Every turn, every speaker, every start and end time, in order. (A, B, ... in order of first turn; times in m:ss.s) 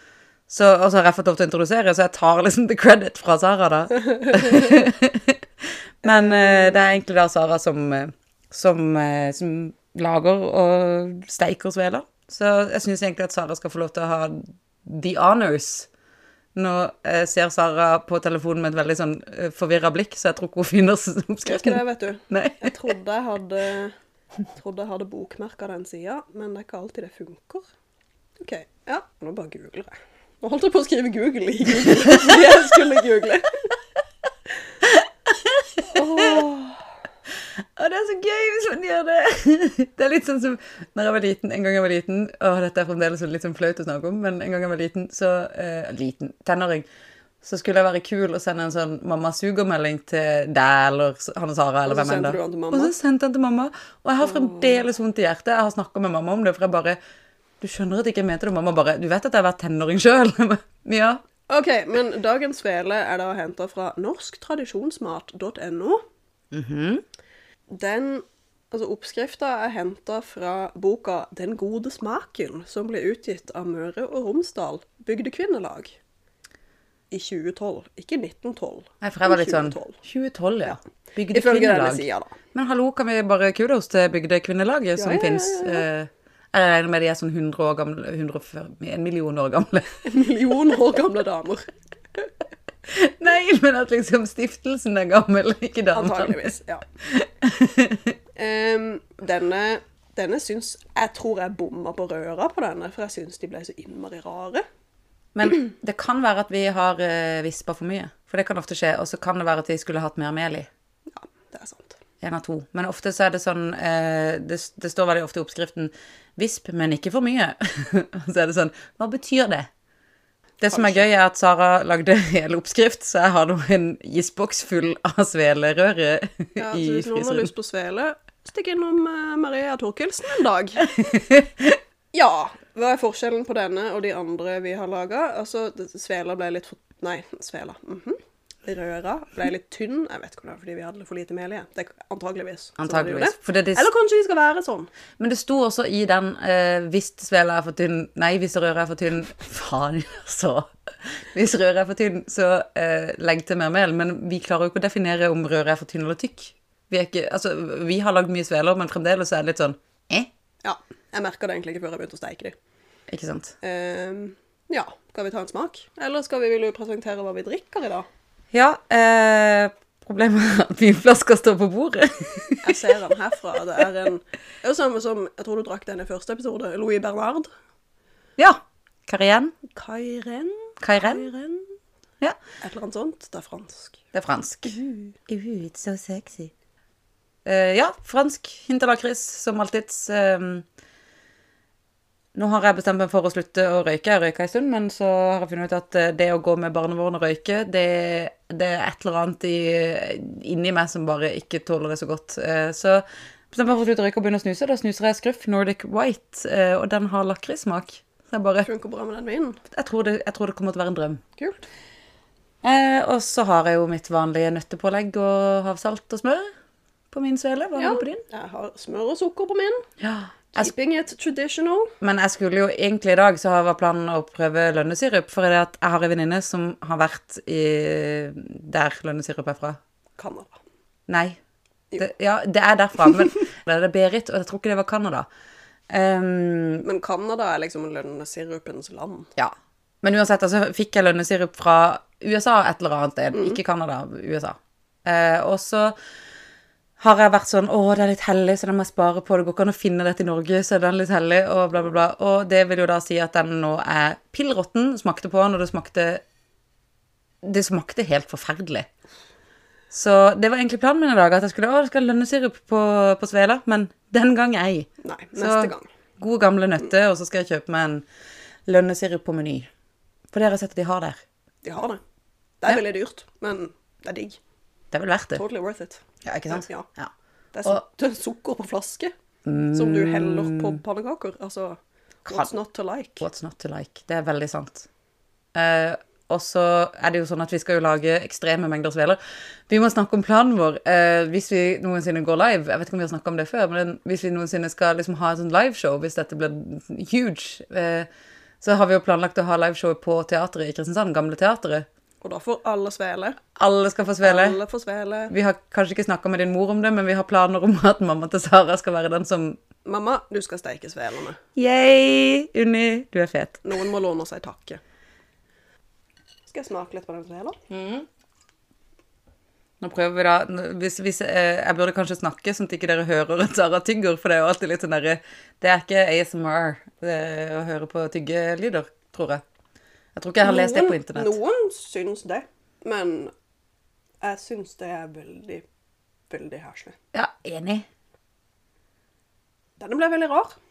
0:00.5-0:15.9 A
0:04.4-0:04.7 B
0:06.0-0:06.9 B
0:16.6-0:22.9 A
0:21.4-0:23.9 B
0:24.5-0:27.6 B
0:28.4-0:33.5 B
0:34.8-0:36.5 A
0:35.9-0:36.8 B
0:37.8-0:46.9 A
0:47.4-0:57.0 A
0:51.9-0:52.9 B
0:54.2-0:54.8 B
0:57.6-1:01.2 A
1:01.5-1:06.0 B
1:06.5-1:07.0 A
1:07.7-1:16.0 B
1:17.1-1:20.0 B
1:19.0-1:30.0 A
1:21.3-1:22.3 B
1:25.0-1:25.8 B
1:30.0-1:31.7 B
1:32.9-1:36.5 A
1:35.9-1:36.8 B
1:37.0-1:38.2 A
1:38.4-1:44.6 B
1:45.4-1:50.7 A
1:51.1-1:52.0 B
1:52.2-1:59.7 A
2:00.6-2:07.5 A
2:00.7-2:01.0 B
2:06.6-2:10.9 B
2:10.8-2:11.8 A
2:12.1-2:24.9 B
2:22.8-2:23.9 A
2:25.2-2:30.7 A
2:31.3-2:40.3 A
2:40.6-2:42.6 B
2:43.1-2:43.6 A
2:43.6-2:48.1 B
2:48.5-2:53.0 A
2:52.6-2:57.5 B
2:58.4-2:59.6 A
2:59.7-3:01.7 B
3:00.8-3:01.2 A
3:02.6-3:04.0 B
3:04.1-3:04.8 A
3:04.7-3:05.1 B
3:05.3-3:06.5 A
3:07.4-3:10.7 A
3:12.4-3:28.7 A
3:28.6-3:29.6 B
3:29.7-3:31.2 A
3:31.4-3:31.6 B
3:32.6-3:36.5 A
3:37.1-3:38.2 A
3:37.8-3:39.9 B
3:40.0-3:40.7 A
3:40.5-3:41.9 B
3:42.0-3:49.8 A
3:50.2-3:50.6 B
3:51.1-3:51.4 A
3:52.0-3:55.3 A
3:55.9-3:56.8 A
3:56.8-3:59.3 B
3:59.4-4:06.0 A
4:03.3-4:03.6 B
4:07.0-4:16.2 A
4:17.4-4:18.9 A
4:19.9-4:28.0 A
4:25.0-4:25.9 B
4:28.7-4:29.7 A
4:30.3-4:31.2 A
4:31.6-4:32.0 B
4:32.6-4:34.4 B
4:34.9-4:35.4 A
4:35.3-4:36.9 B
4:36.2-4:37.1 A
4:37.5-4:39.1 B
4:39.5-4:40.8 A
4:39.7-4:43.3 B
4:42.3-4:42.5 A
4:43.2-4:44.9 A
4:45.6-4:49.2 A
4:49.7-4:58.1 A
4:58.6-5:01.9 A
5:02.2-5:03.4 B
5:03.6-5:04.6 A
5:04.2-5:05.3 B
5:05.3-5:09.6 A
5:09.8-5:11.4 B
5:11.6-5:13.6 A
5:13.6-5:14.8 B
5:16.5-5:17.6 B
5:17.7-5:18.1 A
5:19.8-5:29.4 A
5:30.2-5:31.4 A
5:30.4-5:33.3 B
5:34.2-5:35.6 B
5:36.3-5:37.0 B
5:37.1-5:37.9 A
5:39.8-5:40.6 B